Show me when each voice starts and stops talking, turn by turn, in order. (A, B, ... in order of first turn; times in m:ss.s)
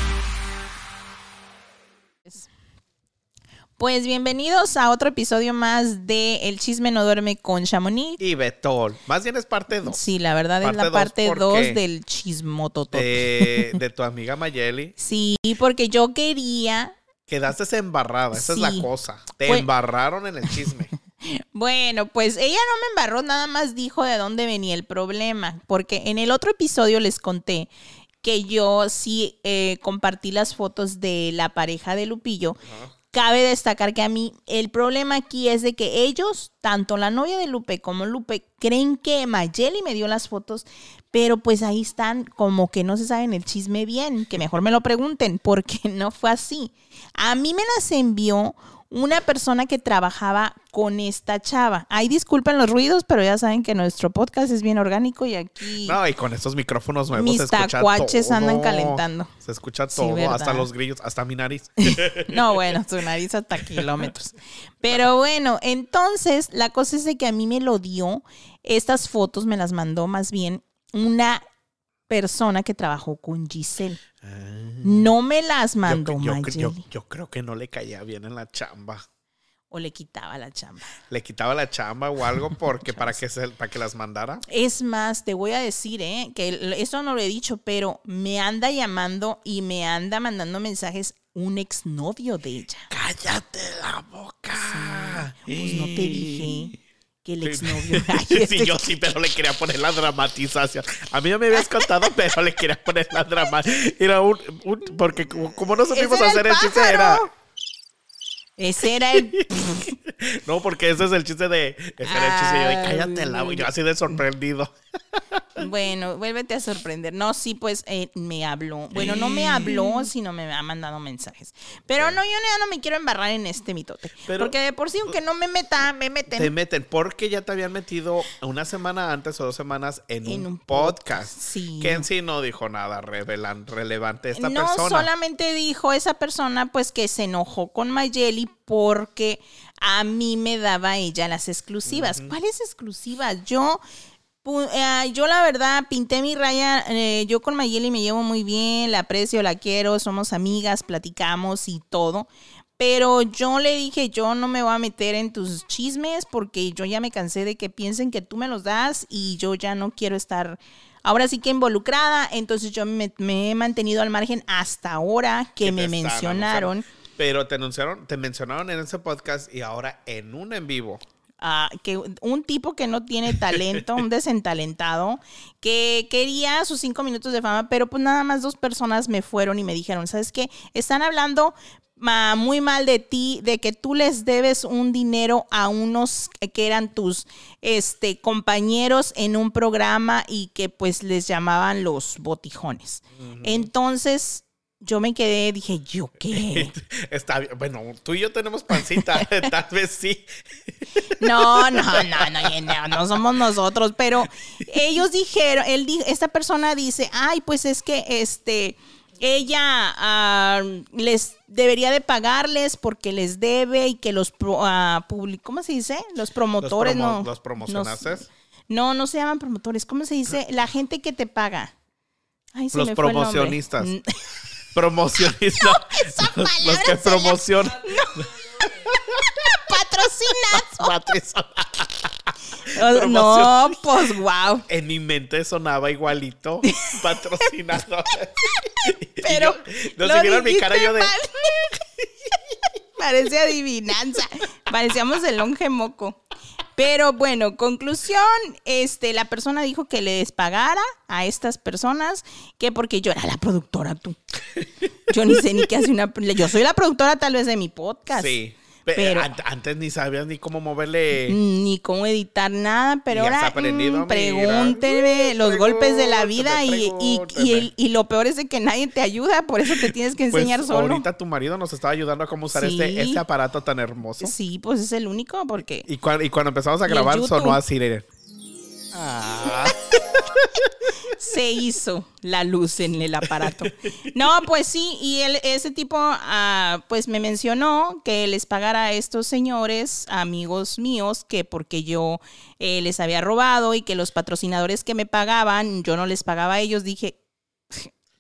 0:03.8-0:08.2 A
0:08.2-0:10.1 B
0:09.8-0:13.8 A
0:10.6-0:11.8 B
0:12.9-0:14.9 B
0:15.0-0:17.0 A
0:17.3-0:20.9 B
0:18.3-0:18.9 A
0:21.2-0:27.7 A
0:28.2-0:32.6 A
0:32.6-0:32.9 B
0:33.1-0:56.0 A
0:55.8-1:02.8 B
0:57.1-0:59.3 A
0:59.9-1:00.7 A
1:01.9-1:11.4 A
1:03.6-1:04.1 B
1:12.1-1:14.0 A
1:14.2-1:15.1 B
1:14.8-1:16.8 A
1:15.8-1:19.0 B
1:19.7-1:20.9 A
1:21.1-1:24.4 B
1:24.4-1:32.9 A
1:32.9-1:36.7 B
1:34.5-1:38.9 A
1:37.4-1:47.2 B
1:41.6-1:41.8 A
1:45.9-1:47.3 A
1:48.6-1:49.9 A
1:49.1-1:55.6 B
1:52.0-1:53.7 A
1:55.6-2:06.5 A
1:58.9-2:00.1 B
2:04.2-2:04.6 B
2:06.3-2:15.1 B
2:10.2-2:12.1 A
2:14.3-2:23.8 A
2:21.8-2:22.3 B
2:24.4-2:46.8 A
2:45.6-2:51.0 B
2:51.4-3:16.7 A
2:53.3-2:54.0 B
3:13.2-3:13.7 B
3:16.3-3:23.2 B
3:21.2-3:41.7 A
3:36.6-3:38.3 B
3:42.5-3:44.0 A
3:42.7-3:43.9 B
3:44.7-3:49.5 B
3:45.5-3:48.2 A
3:49.4-3:51.0 A
3:50.5-3:53.8 B
3:52.6-3:54.6 A
3:54.7-4:01.8 B
3:56.6-3:57.0 A
3:59.2-4:01.7 A
4:03.0-4:06.2 A
4:06.7-4:14.2 A
4:15.1-4:18.4 A
4:18.1-4:21.4 B
4:18.9-4:19.3 A
4:21.3-4:31.0 A
4:23.1-4:27.7 B
4:29.7-4:34.3 B
4:32.5-4:33.2 A
4:34.2-4:35.9 A
4:35.8-4:38.1 B
4:36.8-4:37.6 A
4:38.9-4:40.7 B
4:39.3-4:39.6 A
4:41.0-4:57.2 A
4:43.2-4:44.1 B